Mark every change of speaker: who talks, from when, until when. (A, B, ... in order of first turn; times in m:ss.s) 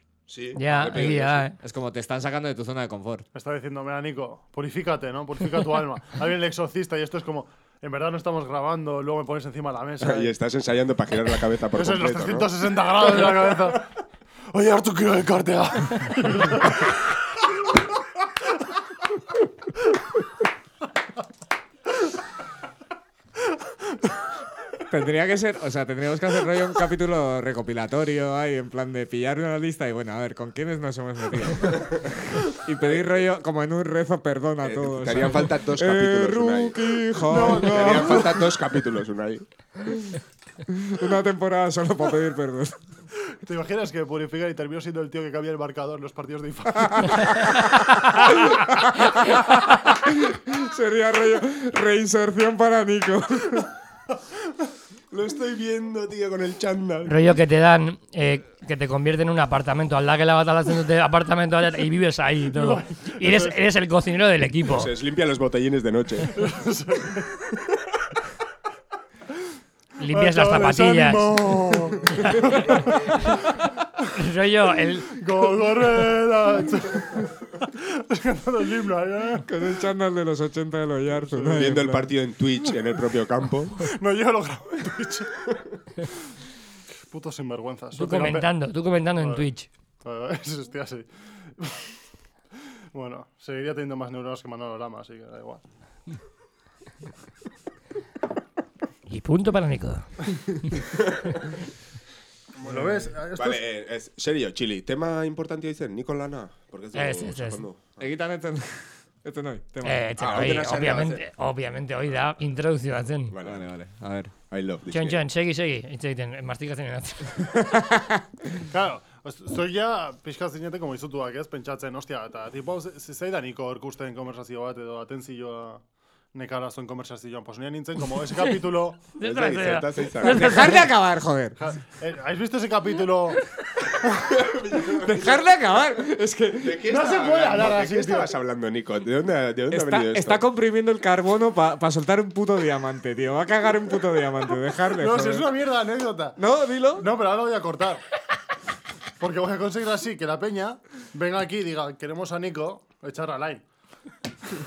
0:00.3-0:01.4 A
0:00.6-0:01.6 B
0:01.6-0:03.2 C
0:03.3-0:10.3 D
0:10.0-0:12.5 A
0:11.7-0:13.9 D
0:14.5-0:16.9 D
0:24.9-0:38.5 C
0:32.8-0:33.2 A
0:34.6-0:39.4 A
0:37.3-0:38.3 D
0:39.8-0:42.8 C
0:43.4-0:47.6 D
0:46.8-0:53.7 C
0:55.1-0:57.1 A
0:57.0-1:04.9 B
1:02.5-1:03.6 D
1:04.7-1:06.3 A
1:06.3-1:07.6 D
1:10.0-1:11.5 B
1:10.1-1:13.4 D
1:14.1-1:15.2 B
1:15.1-1:19.5 D
1:19.4-1:22.1 C
1:21.3-1:23.8 A
1:23.8-1:25.5 D
1:27.1-1:28.5 D
1:27.9-1:29.7 B
1:29.2-1:29.4 D
1:30.0-1:31.9 D
1:32.9-1:35.6 D
1:39.1-1:40.8 B
1:40.9-1:41.4 A
1:42.6-1:43.6 D
1:43.3-1:48.1 A
1:46.9-1:47.6 B
1:48.0-1:50.6 C
1:49.8-1:53.3 B
1:50.2-1:51.2 A
1:53.3-1:53.7 A
1:53.4-1:54.3 C
1:54.5-1:55.2 A
1:54.9-1:57.5 B
1:57.7-1:58.1 C
1:58.7-2:05.8 D
2:06.3-2:09.1 D
2:09.1-2:10.8 B
2:09.2-2:10.9 A
2:10.2-2:11.6 C
2:11.6-2:13.4 D
2:14.0-2:15.8 A
2:15.0-2:16.8 C
2:16.5-2:20.4 A
2:16.8-2:18.3 D
2:19.7-2:25.5 C
2:25.0-2:26.4 D
2:26.4-2:27.1 C
2:27.0-2:28.0 D
2:29.2-2:33.6 D